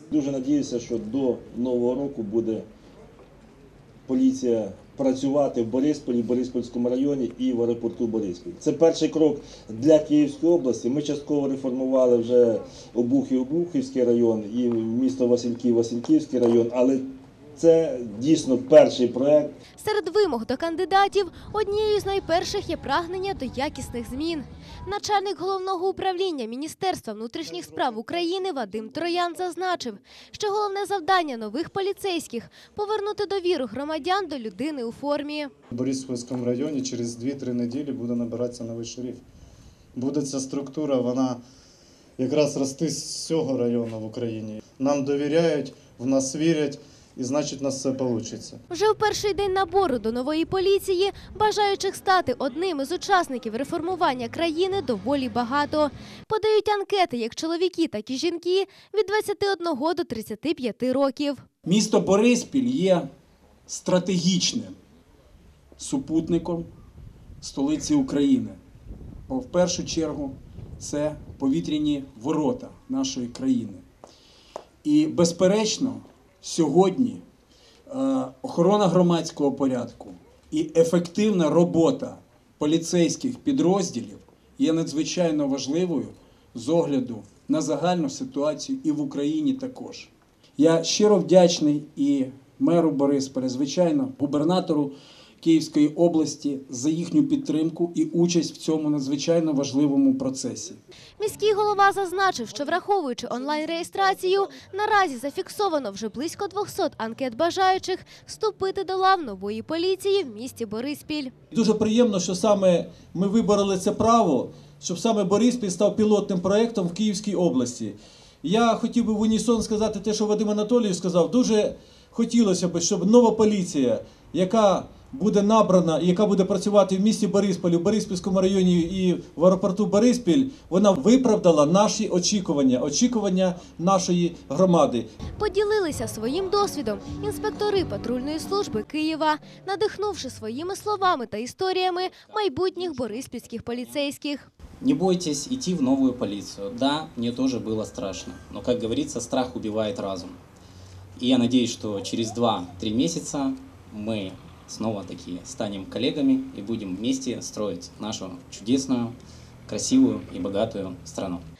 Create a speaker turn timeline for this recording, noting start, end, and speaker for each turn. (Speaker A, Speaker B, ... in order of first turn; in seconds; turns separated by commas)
Speaker A: 0.1-2.6, Speaker A: 4.1-19.6, Speaker B: 19.8-35.5, Speaker C: 27.6-28.3, Speaker C: 35.7-39.2, Speaker C: 39.9-41.4, Speaker C: 42.2-48.6, Speaker B: 48.7-61.4, Speaker D: 61.6-63.1, Speaker D: 63.7-64.8, Speaker D: 65.8-66.7, Speaker D: 67.4-68.6, Speaker D: 69.3-73.8, Speaker D: 74.8-77.2, Speaker D: 77.9-100.8, Speaker B: 101.2-111.3, Speaker E: 111.5-135.1, Speaker B: 135.4-144.5, Speaker F: 142.0-144.0, Speaker F: 144.8-150.4, Speaker F: 151.2-161.5